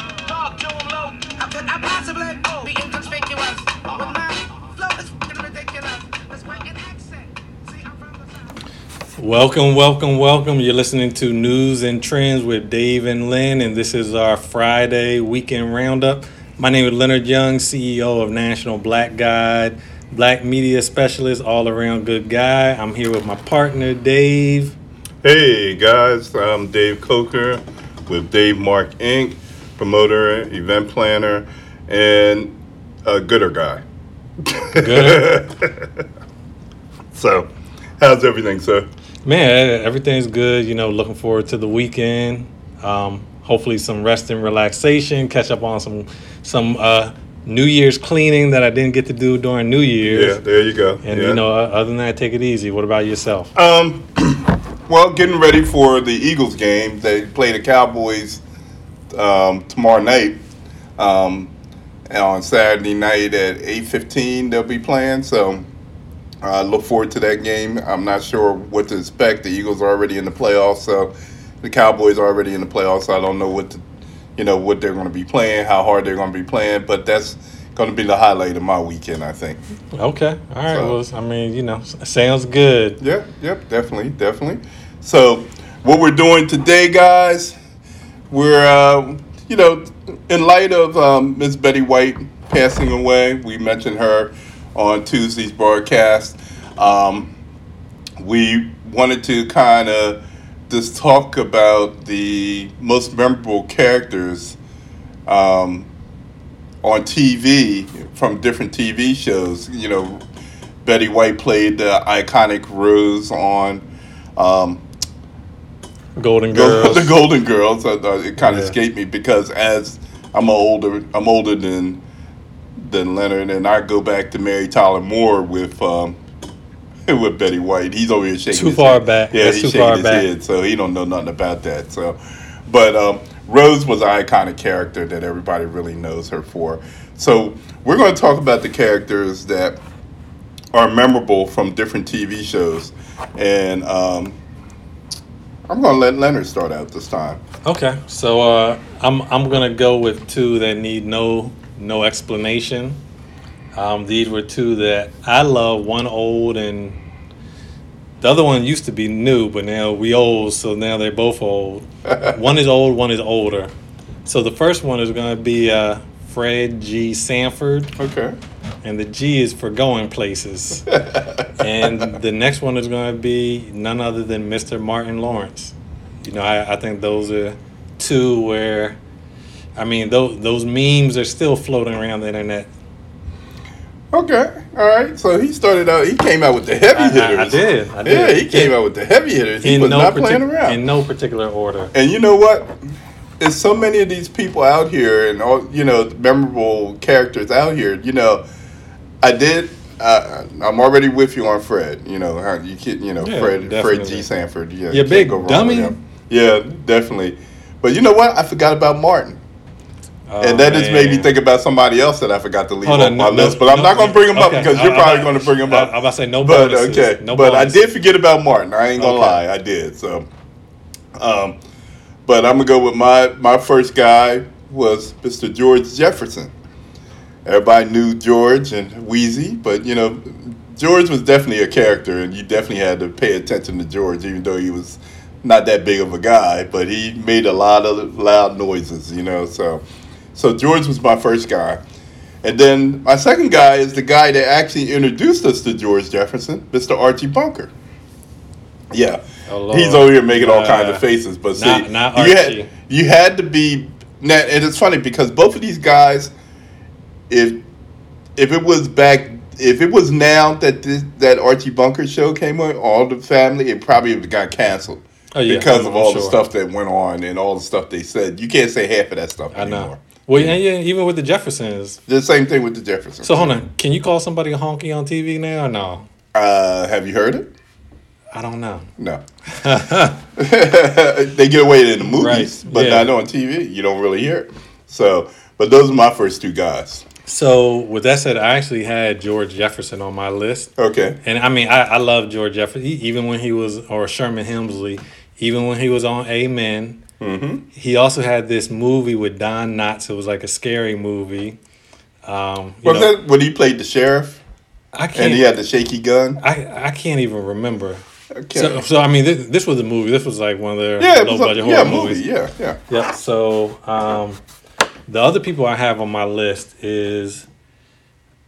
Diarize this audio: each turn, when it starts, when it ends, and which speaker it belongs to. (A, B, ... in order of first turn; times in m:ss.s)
0:00.7-0:04.3 A
0:05.2-0:05.8 A
0:09.2-0:24.8 B
0:25.2-0:33.8 C
0:34.4-0:36.0 C
0:34.8-0:35.3 B
0:37.1-0:38.9 C
0:39.2-0:50.4 B
0:50.0-0:51.4 C
0:51.0-0:53.5 B
0:53.6-0:58.4 C
0:59.1-1:00.4 C
1:01.0-1:01.5 C
1:02.1-1:05.7 C
1:06.4-1:13.8 C
1:14.4-1:19.6 C
1:19.9-1:23.0 B
1:20.7-1:21.0 C
1:23.0-1:27.6 C
1:28.3-1:37.3 C
1:38.2-1:44.6 C
1:45.3-1:45.9 C
1:46.8-1:50.2 C
1:50.8-1:53.8 C
1:54.4-1:54.8 C
1:56.2-1:57.1 B
1:56.5-2:02.0 C
1:58.4-1:58.8 B
2:02.8-2:06.2 C
2:07.1-2:19.8 C
2:08.5-2:10.3 B
2:20.7-2:24.4 C
2:25.7-2:27.4 C
2:27.6-2:33.0 B
2:33.7-2:37.0 B
2:38.2-2:43.7 B
2:44.3-2:48.0 B
2:48.0-2:48.4 C
2:48.8-2:50.9 B
2:50.9-2:51.9 C
2:51.6-2:59.0 B
2:59.8-3:02.7 B
3:04.1-3:10.8 C
3:06.9-3:08.7 B
3:09.6-3:11.9 B
3:11.9-3:12.8 C
3:13.4-3:18.4 C
3:19.2-3:29.4 C
3:23.2-3:24.3 B
3:24.9-3:26.0 B
3:30.3-3:31.3 B
3:30.4-3:35.9 C
3:32.8-3:37.9 B
3:36.4-3:40.3 C
3:39.0-3:39.4 B
3:41.2-3:41.6 C
3:42.3-3:46.5 C
3:47.4-3:59.8 C
4:00.4-4:01.8 C
4:02.4-4:07.7 C
4:08.9-4:16.3 C
4:09.5-4:11.0 B
4:11.6-4:12.7 B
4:17.3-4:17.6 C
4:18.4-4:30.6 C
4:25.3-4:26.4 B
4:29.5-4:32.0 B
4:32.1-4:33.6 C
4:33.2-4:36.1 B
4:36.3-4:37.5 C
4:38.3-4:38.9 B
4:39.5-4:40.2 B
4:40.4-4:47.1 C
4:42.1-4:43.1 B
4:47.3-4:50.7 B
4:50.8-4:51.2 C
4:51.2-4:57.0 B
4:57.2-4:57.6 C
4:57.7-5:01.6 B
5:02.2-5:03.1 B
5:02.8-5:04.4 C
5:05.0-5:05.5 B
5:05.2-5:06.4 C
5:06.4-5:08.0 B
5:08.4-5:08.8 C
5:08.5-5:12.2 B
5:11.0-5:12.8 C
5:12.9-5:14.4 B
5:15.1-5:17.5 B